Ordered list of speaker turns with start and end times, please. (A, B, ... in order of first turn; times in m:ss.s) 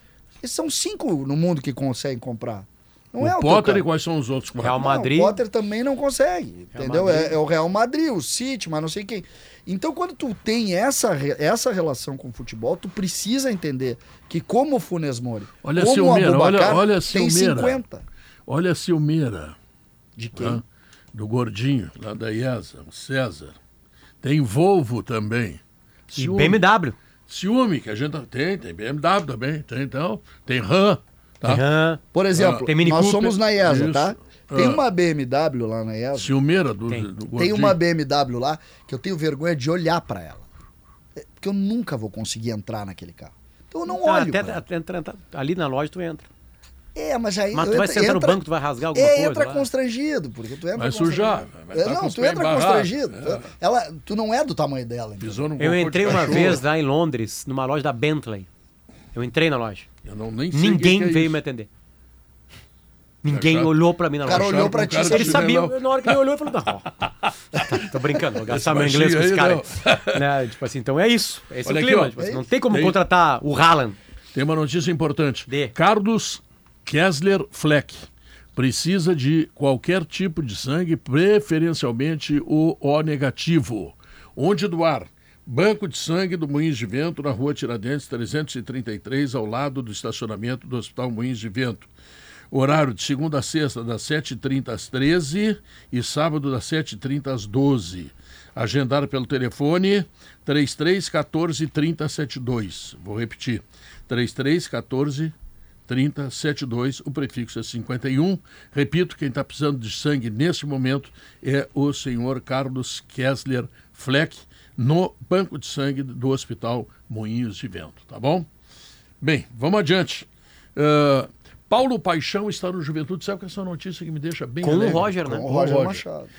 0:00.4-0:03.8 A
0:03.2-0:04.9 B
0:04.6-0:05.4 C
0:04.7-0:18.0 A
0:06.8-0:07.4 C
0:15.6-0:17.8 B
0:18.5-0:19.6 B
0:20.2-0:20.6 A
0:20.4-0:20.6 B
0:21.1-0:23.6 B
0:24.2-0:26.6 B
0:26.2-0:27.0 C
0:27.3-0:31.6 B
0:31.4-0:32.0 C
0:32.1-0:36.3 A
0:32.3-0:32.7 B
0:32.6-0:33.3 C
0:33.6-0:34.8 B
0:36.2-0:37.8 B
0:37.4-0:40.4 A
0:41.2-0:44.6 A
0:43.9-0:46.3 C
0:47.0-0:48.4 A
0:47.5-0:49.7 C
0:48.9-0:55.4 A
0:50.8-0:53.5 B
0:55.2-0:56.6 B
0:55.6-0:58.5 C
0:56.1-0:56.5 A
0:59.1-0:59.9 C
1:00.0-1:01.3 B
1:00.5-1:01.7 C
1:03.2-1:06.9 C
1:03.3-1:06.2 B
1:04.2-1:05.5 A
1:07.0-1:07.9 B
1:07.7-1:14.0 C
1:08.5-1:10.2 B
1:11.6-1:12.2 B
1:12.2-1:12.5 A
1:12.7-1:13.0 B
1:14.3-1:31.9 B
1:15.5-1:15.7 C
1:32.5-1:45.3 B
1:45.9-1:58.5 B
1:59.2-2:06.0 B
2:04.6-2:05.5 C
2:04.8-2:06.3 A